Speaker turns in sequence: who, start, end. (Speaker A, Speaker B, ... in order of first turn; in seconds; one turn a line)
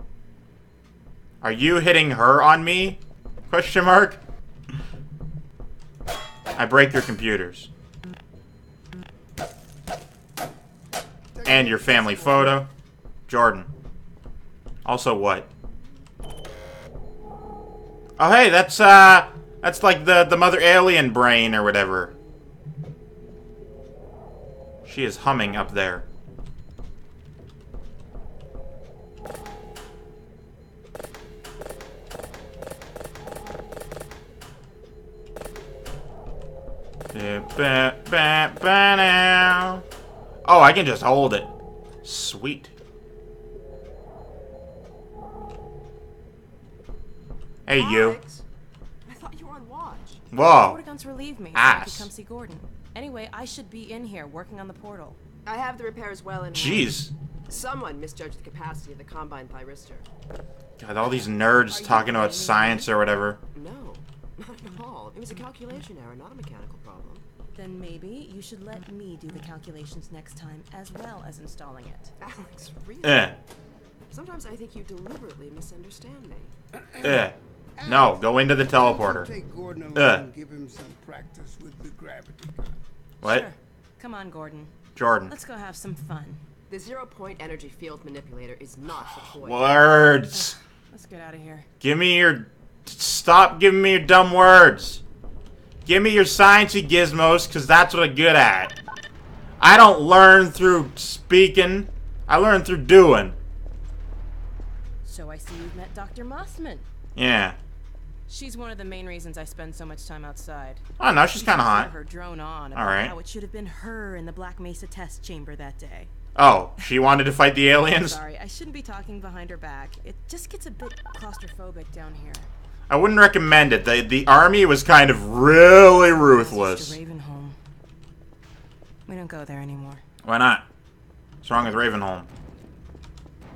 Speaker A: 1.4-4.2
Speaker A: 6.5-7.7
Speaker B: 11.3-12.6
Speaker A: 11.5-12.7
Speaker A: 13.3-13.7
Speaker A: 14.8-15.5
Speaker A: 18.2-22.1
Speaker A: 24.9-26.1
Speaker A: 37.1-39.8
Speaker A: 40.5-41.5
Speaker A: 42.0-42.7
Speaker A: 47.7-48.2
Speaker C: 47.7-48.4
Speaker C: 49.1-50.2
Speaker A: 50.3-50.8
Speaker D: 50.5-55.2
Speaker A: 51.5-52.1
Speaker C: 55.5-60.1
Speaker A: 56.5-57.1
Speaker A: 60.8-63.4
Speaker D: 61.6-62.9
Speaker C: 63.5-67.2
Speaker D: 67.5-72.1
Speaker C: 72.2-73.4
Speaker A: 73.0-73.3
Speaker C: 74.1-76.5
Speaker B: 76.7-82.8
Speaker A: 77.0-79.3
Speaker A: 80.0-80.2
Speaker A: 83.2-83.5
Speaker D: 83.2-84.7
Speaker A: 85.0-85.3
Speaker D: 85.3-86.4
Speaker C: 86.7-89.8
Speaker A: 89.0-90.6
Speaker D: 90.3-91.7
Speaker A: 91.8-95.0
Speaker A: 95.8-98.8
Speaker A: 99.6-103.4
Speaker D: 105.0-106.9
Speaker A: 107.2-107.6
Speaker D: 108.3-116.1
Speaker A: 111.0-111.9
Speaker A: 112.8-113.1
Speaker A: 116.3-118.2
Speaker D: 117.9-122.5
Speaker A: 122.9-127.0
Speaker D: 126.0-127.6
Speaker D: 129.1-130.0
Speaker A: 130.2-130.6
Speaker A: 131.4-132.3